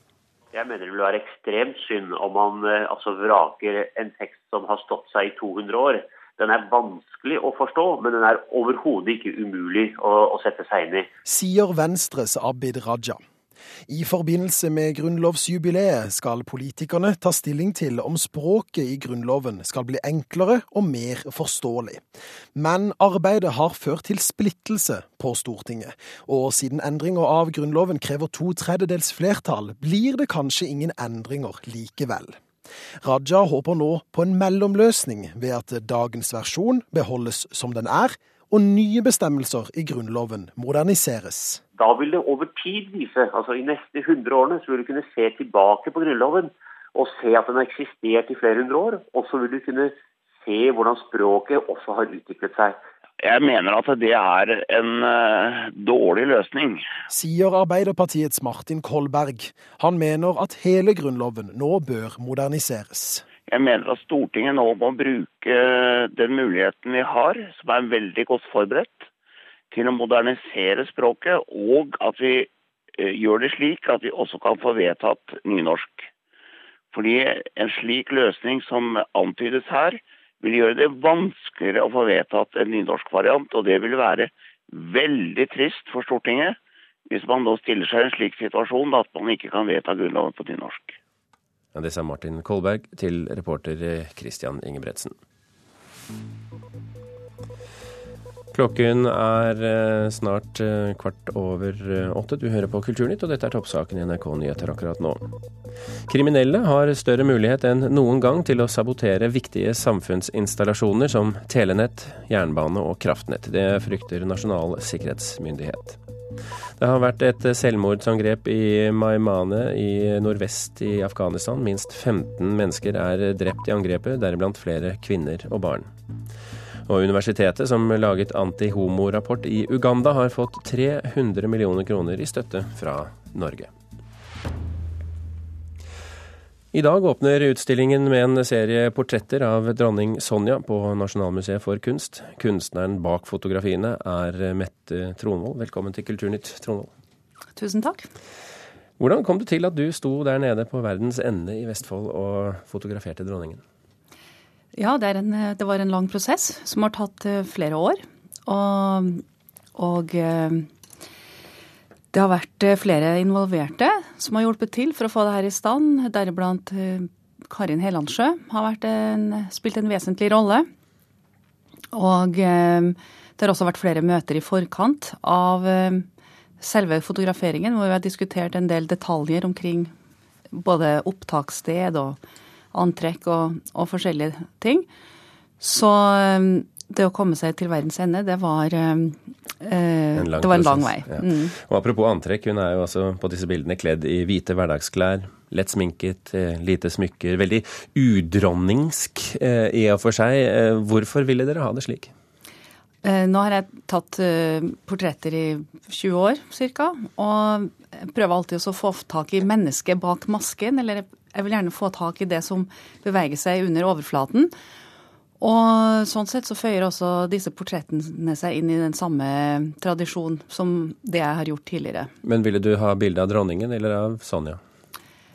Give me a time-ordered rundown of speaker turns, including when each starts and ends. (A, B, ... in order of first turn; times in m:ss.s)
0:00.5-0:11.1 A
0:11.2-0:13.2 B
0:13.9-0:22.0 B
0:22.5-0:32.4 B
0:33.0-0:41.6 B
0:41.7-0:52.8 A
0:53.2-0:56.8 C
0:57.1-1:03.2 B
1:03.5-1:09.1 C
1:09.7-1:16.1 C
1:16.9-1:26.6 C
1:27.1-1:31.0 C
1:31.7-1:35.2 D
1:38.5-1:45.3 D
1:46.1-1:56.0 D
1:56.8-2:05.9 D
2:06.9-2:13.7 D
2:16.7-2:26.9 D
2:27.6-2:28.1 E
2:29.0-2:33.6 D
2:34.7-2:39.2 E
2:39.8-2:40.7 E
2:42.1-2:50.7 E
2:51.9-2:56.0 E
2:56.6-2:59.9 E
3:00.5-3:02.2 E
3:02.7-3:04.9 E
3:05.6-3:11.5 E
3:10.2-3:22.1 D
3:23.0-3:34.5 E
3:35.4-3:42.1 E
3:42.2-3:44.6 D